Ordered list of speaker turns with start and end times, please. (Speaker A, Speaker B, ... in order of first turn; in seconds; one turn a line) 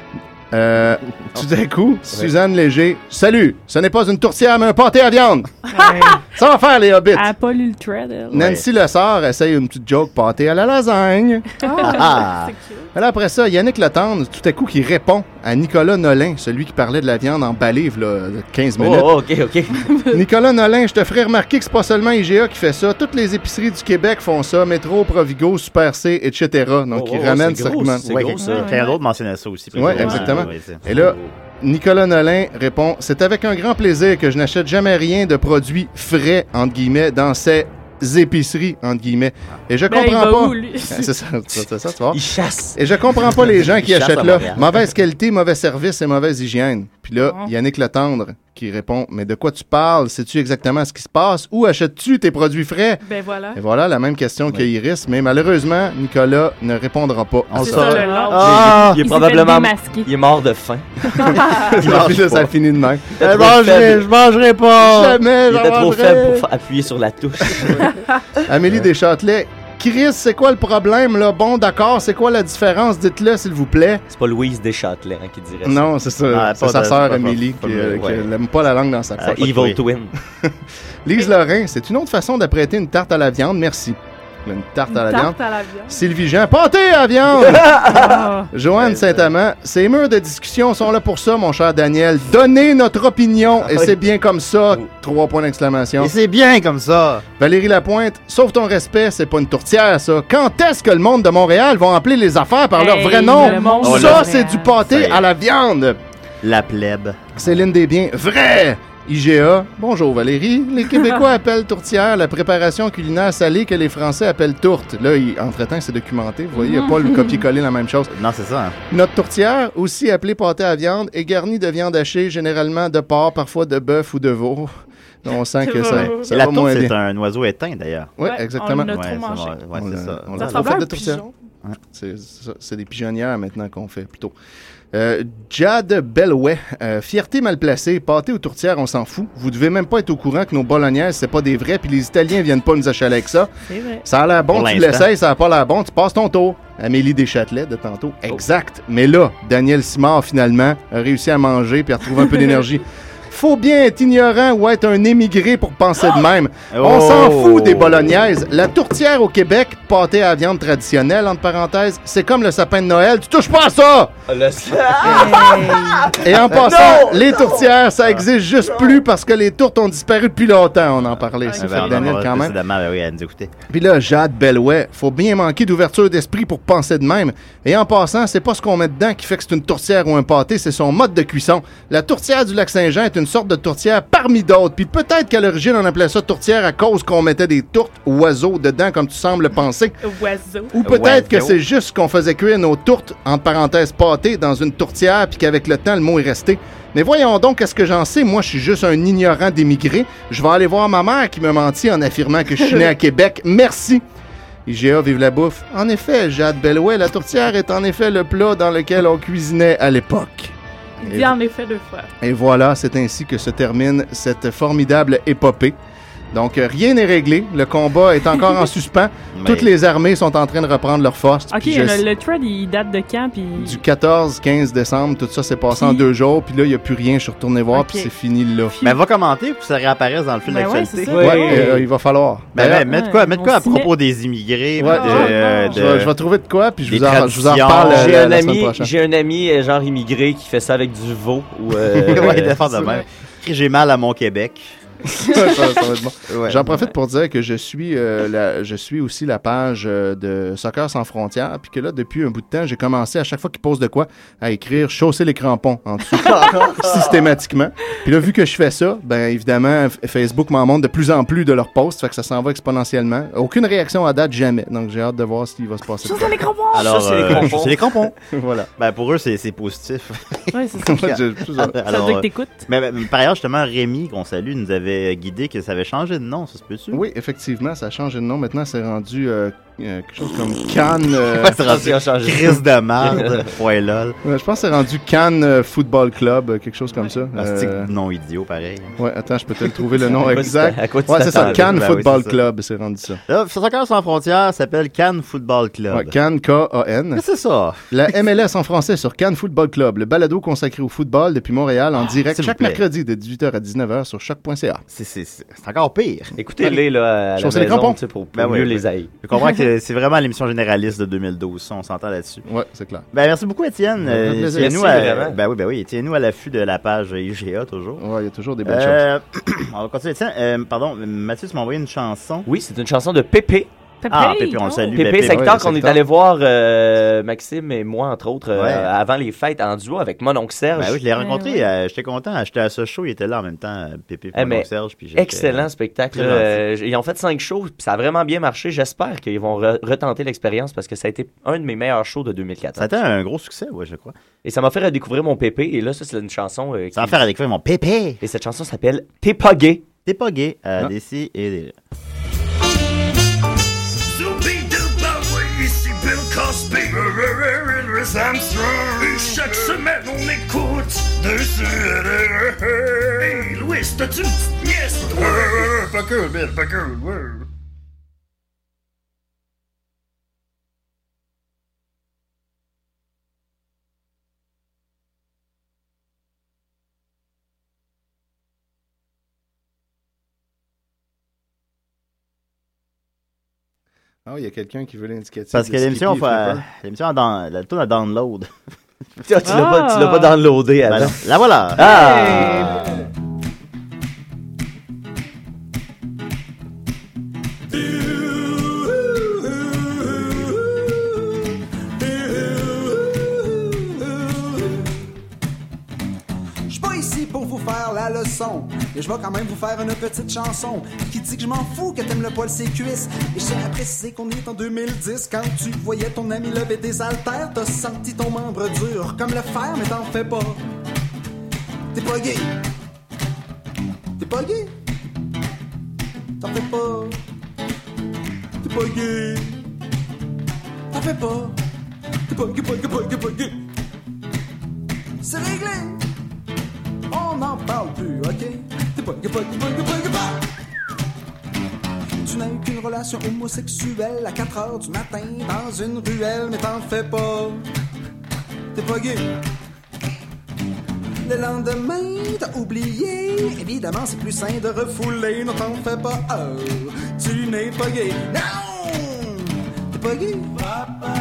Speaker A: 0.5-5.5
Speaker B: 5.7-6.2
Speaker C: 5.7-6.2
Speaker A: 6.2-7.3
Speaker C: 7.1-8.4
Speaker A: 8.3-11.4
Speaker D: 8.3-8.6
Speaker B: 11.6-12.9
Speaker C: 11.7-12.0
Speaker D: 11.8-12.5
Speaker A: 12.9-19.1
Speaker E: 18.8-19.9
Speaker A: 20.1-28.1
Speaker E: 26.9-28.7
Speaker D: 28.0-30.8
Speaker C: 28.4-29.0
Speaker A: 29.7-42.2
Speaker E: 29.8-31.3
Speaker B: 39.9-41.1
Speaker E: 42.1-42.8
Speaker A: 42.7-53.0
Speaker D: 43.6-44.8
Speaker B: 47.2-47.5
Speaker B: 53.0-53.6
Speaker A: 53.5-58.1
Speaker D: 57.5-59.0
Speaker B: 57.6-58.6
Speaker C: 57.7-60.1
Speaker E: 58.4-62.3
Speaker C: 61.1-61.4
Speaker A: 61.2-63.2
Speaker D: 61.6-62.5
Speaker E: 63.1-64.0
Speaker D: 63.2-65.2
Speaker A: 64.8-66.5
Speaker E: 65.5-67.8
Speaker A: 67.5-67.9
Speaker A: 68.4-74.0
Speaker E: 74.1-75.8
Speaker A: 75.6-79.7
Speaker D: 76.3-78.3
Speaker D: 79.2-79.8
Speaker E: 79.2-80.1
Speaker A: 80.4-88.0
Speaker B: 84.9-86.0
Speaker E: 87.4-88.2
Speaker C: 87.9-88.3
Speaker B: 88.2-88.5
Speaker A: 88.5-96.1
Speaker E: 88.8-89.2
Speaker E: 93.6-93.9
Speaker D: 96.0-97.2
Speaker A: 97.4-106.0
Speaker C: 102.8-104.7
Speaker B: 103.2-104.3
Speaker D: 103.8-104.2
Speaker D: 104.8-105.2
Speaker D: 106.4-107.7
Speaker A: 107.4-118.1
Speaker C: 116.5-117.3
Speaker D: 118.1-118.8
Speaker A: 118.9-124.7
Speaker A: 125.2-127.0
Speaker B: 125.6-126.3
Speaker D: 125.9-128.1
Speaker A: 128.2-129.0
Speaker B: 128.2-129.6
Speaker D: 128.8-130.7
Speaker A: 129.7-131.2
Speaker B: 130.3-131.3
Speaker A: 131.9-134.3
Speaker A: 134.9-143.5
Speaker C: 143.7-144.0
Speaker A: 144.0-164.1
Speaker D: 144.5-145.1
Speaker D: 156.7-158.1
Speaker E: 164.3-167.7
Speaker A: 165.0-165.4
Speaker C: 165.1-166.0
Speaker A: 166.2-172.6
Speaker E: 168.6-169.0
Speaker B: 171.5-172.1
Speaker D: 171.6-173.5
Speaker A: 173.7-189.9
Speaker B: 190.0-190.8
Speaker A: 190.8-204.0
Speaker D: 190.8-191.6
Speaker A: 204.7-211.3
Speaker B: 211.0-212.1
Speaker A: 212.2-215.8
Speaker A: 216.3-222.0
Speaker D: 219.3-219.7
Speaker C: 221.5-223.8
Speaker A: 223.6-228.7
Speaker C: 225.7-226.0
Speaker C: 227.7-228.1
Speaker C: 228.7-229.0
Speaker D: 228.8-231.6
Speaker C: 230.5-231.7
Speaker B: 230.7-231.0
Speaker E: 231.1-231.8
Speaker A: 231.2-232.9
Speaker D: 232.5-236.1
Speaker C: 232.9-233.9
Speaker A: 234.8-238.9
Speaker C: 234.8-235.8
Speaker D: 236.8-238.1
Speaker E: 237.8-242.6
Speaker D: 242.1-244.7
Speaker A: 242.1-243.0
Speaker A: 245.1-266.5
Speaker D: 246.3-246.6
Speaker E: 256.5-256.8
Speaker C: 266.0-266.9
Speaker D: 266.7-268.1
Speaker E: 266.7-267.9
Speaker A: 267.3-268.7
Speaker D: 268.8-277.0
Speaker C: 270.5-271.0
Speaker A: 270.8-271.7
Speaker C: 271.7-272.7
Speaker A: 276.9-281.6
Speaker D: 281.3-284.2
Speaker E: 281.6-283.4
Speaker A: 284.2-287.9
Speaker D: 287.4-289.0
Speaker A: 289.0-293.2
Speaker E: 290.2-291.7
Speaker D: 291.3-292.4
Speaker D: 293.3-296.1
Speaker A: 295.9-297.2
Speaker D: 297.1-297.9
Speaker A: 297.9-304.8
Speaker D: 302.0-302.8
Speaker D: 304.9-306.4
Speaker E: 306.4-309.1
Speaker A: 307.4-308.0
Speaker D: 308.3-312.4
Speaker A: 312.4-313.1
Speaker D: 313.1-318.0
Speaker A: 314.0-315.1
Speaker E: 314.5-315.4
Speaker A: 318.0-319.1
Speaker D: 318.6-322.5
Speaker E: 322.4-323.7
Speaker C: 324.0-324.9
Speaker D: 324.1-325.6
Speaker E: 324.9-331.0
Speaker A: 325.1-326.0
Speaker D: 328.5-328.9
Speaker D: 330.8-336.6
Speaker C: 331.1-331.7
Speaker E: 334.3-342.9
Speaker D: 342.8-344.1
Speaker E: 344.4-347.3
Speaker D: 346.9-348.2
Speaker E: 348.2-349.8
Speaker D: 350.0-351.8
Speaker F: 354.1-367.5
Speaker A: 384.2-386.6
Speaker D: 385.5-388.5
Speaker E: 389.2-391.2
Speaker C: 389.4-390.4
Speaker D: 390.8-392.9
Speaker E: 391.7-392.8
Speaker C: 391.8-392.9
Speaker G: 397.7-404.9
Speaker G: 406.7-420.6
Speaker G: 421.9-422.6
Speaker G: 424.2-424.8
Speaker G: 426.4-427.2
Speaker G: 428.6-429.6
Speaker G: 430.9-431.6
Speaker G: 432.3-433.6
Speaker G: 435.2-436.0
Speaker G: 437.1-440.4
Speaker G: 442.2-447.6
Speaker G: 448.7-449.4
Speaker G: 451.2-460.7